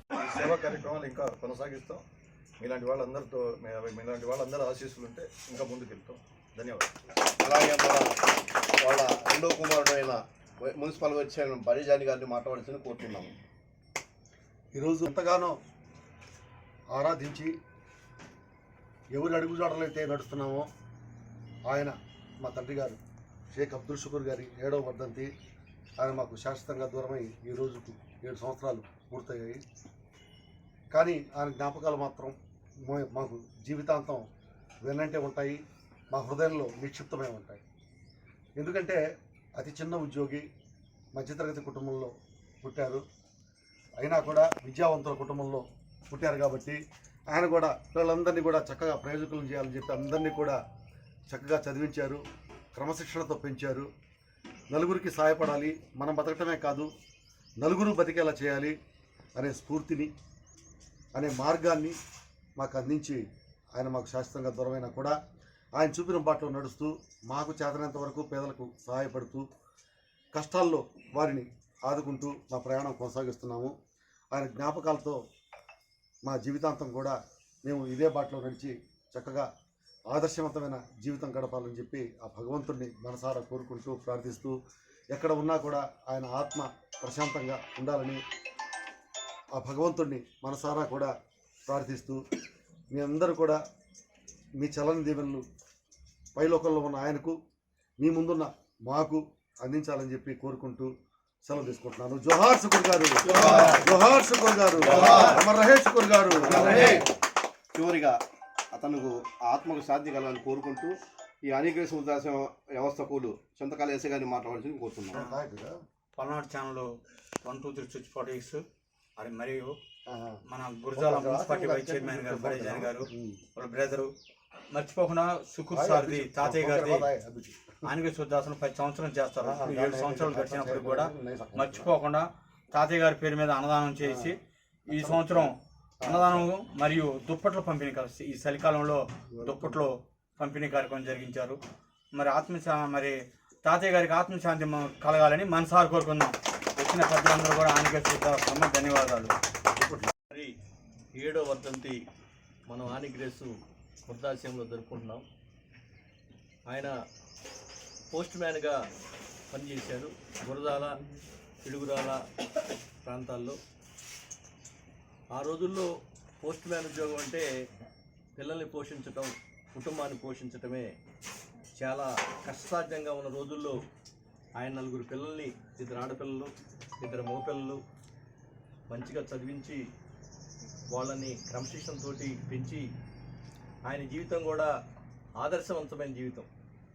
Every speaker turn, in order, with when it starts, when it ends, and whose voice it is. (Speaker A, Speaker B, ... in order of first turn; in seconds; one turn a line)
Speaker A: 0.2-2.0
Speaker A: 2.6-6.9
Speaker B: 7.4-8.1
Speaker B: 8.8-13.3
Speaker C: 14.7-15.6
Speaker C: 16.9-17.6
Speaker C: 19.1-20.7
Speaker C: 21.7-23.0
Speaker C: 23.5-25.3
Speaker C: 26.0-29.6
Speaker C: 30.9-34.2
Speaker C: 34.8-35.6
Speaker C: 36.1-37.6
Speaker C: 38.6-39.0
Speaker C: 39.6-40.5
Speaker C: 41.1-43.0
Speaker C: 44.0-46.8
Speaker C: 47.3-50.6
Speaker C: 51.3-52.2
Speaker C: 52.8-53.9
Speaker C: 54.7-56.9
Speaker C: 57.6-58.7
Speaker C: 59.4-60.1
Speaker C: 61.2-62.0
Speaker C: 62.6-63.2
Speaker C: 63.8-65.2
Speaker C: 65.8-69.5
Speaker C: 70.3-73.7
Speaker C: 74.3-75.2
Speaker C: 76.2-79.5
Speaker C: 80.1-84.5
Speaker C: 85.1-88.2
Speaker C: 89.5-91.1
Speaker C: 91.7-92.2
Speaker C: 92.9-93.6
Speaker C: 94.6-95.4
Speaker C: 96.3-97.3
Speaker C: 98.0-100.9
Speaker C: 101.5-107.1
Speaker B: 103.4-103.8
Speaker B: 104.9-105.4
Speaker B: 106.4-107.1
Speaker B: 107.7-108.2
Speaker B: 108.7-115.2
Speaker C: 115.1-115.7
Speaker D: 116.2-116.9
Speaker D: 117.4-118.6
Speaker D: 119.2-119.8
Speaker C: 120.1-120.4
Speaker D: 120.5-124.1
Speaker C: 121.0-123.4
Speaker D: 124.7-127.0
Speaker C: 125.7-127.7
Speaker D: 127.9-134.4
Speaker C: 129.4-131.9
Speaker C: 134.0-134.3
Speaker D: 134.9-141.6
Speaker C: 134.9-135.5
Speaker C: 136.0-136.5
Speaker C: 139.4-139.8
Speaker D: 142.1-149.3
Speaker C: 149.8-150.1
Speaker E: 151.2-152.0
Speaker E: 152.7-153.5
Speaker E: 154.1-155.2
Speaker E: 156.7-156.9
Speaker E: 158.1-158.7
Speaker E: 159.5-161.0
Speaker E: 161.6-162.2
Speaker E: 163.0-163.6
Speaker E: 165.3-165.9
Speaker E: 166.4-167.4
Speaker E: 168.4-170.9
Speaker E: 171.8-173.8
Speaker E: 174.6-177.8
Speaker E: 178.9-179.8
Speaker E: 180.9-182.8
Speaker E: 183.9-184.7
Speaker E: 185.4-186.5